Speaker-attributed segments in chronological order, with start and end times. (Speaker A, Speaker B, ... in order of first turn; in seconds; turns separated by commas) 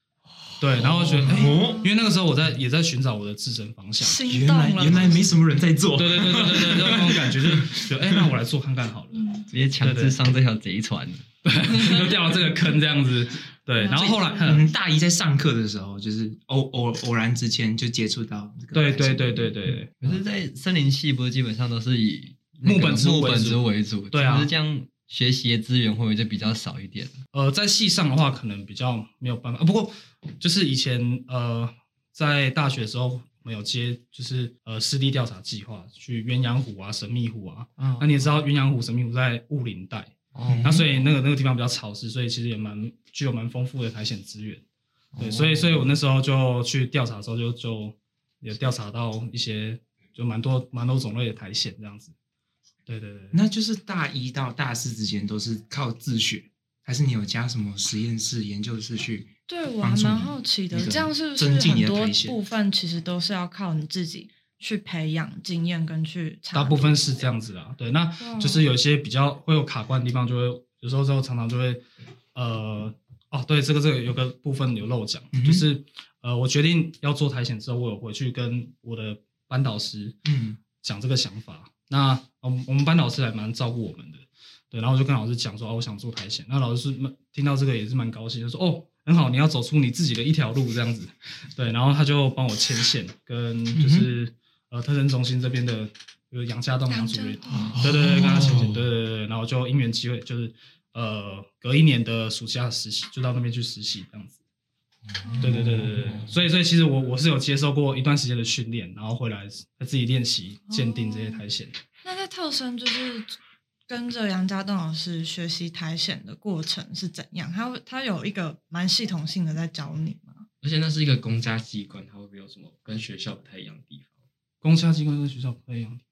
Speaker A: 0.6-4.2, Speaker B: 0.8-1.9, Speaker C: 0.9-1.3, Speaker D: 1.4-1.9, Speaker D: 4.0-5.3, Speaker B: 4.2-8.3, Speaker A: 6.0-10.2, Speaker C: 9.5-11.2, Speaker A: 11.4-14.7, Speaker D: 13.8-14.5, Speaker B: 14.4-19.5, Speaker A: 18.7-20.2, Speaker C: 19.9-27.2, Speaker A: 22.6-24.5, Speaker A: 27.3-44.6, Speaker C: 37.8-38.3, Speaker C: 40.3-41.0, Speaker B: 40.5-40.9, Speaker C: 45.1-45.9, Speaker A: 45.2-52.1, Speaker A: 52.9-53.4, Speaker B: 53.3-62.4, Speaker D: 59.5-67.0, Speaker A: 66.5-71.8, Speaker D: 68.2-68.6, Speaker A: 72.3-80.2, Speaker B: 75.3-75.7, Speaker B: 80.2-80.6, Speaker A: 80.7-104.4, Speaker B: 93.7-94.1, Speaker D: 96.9-97.8, Speaker B: 97.5-98.9, Speaker D: 105.2-105.5, Speaker B: 105.3-106.3, Speaker A: 105.4-111.8, Speaker D: 110.7-111.4, Speaker D: 112.0-113.4, Speaker D: 113.9-120.4, Speaker E: 120.6-124.1, Speaker A: 124.6-126.0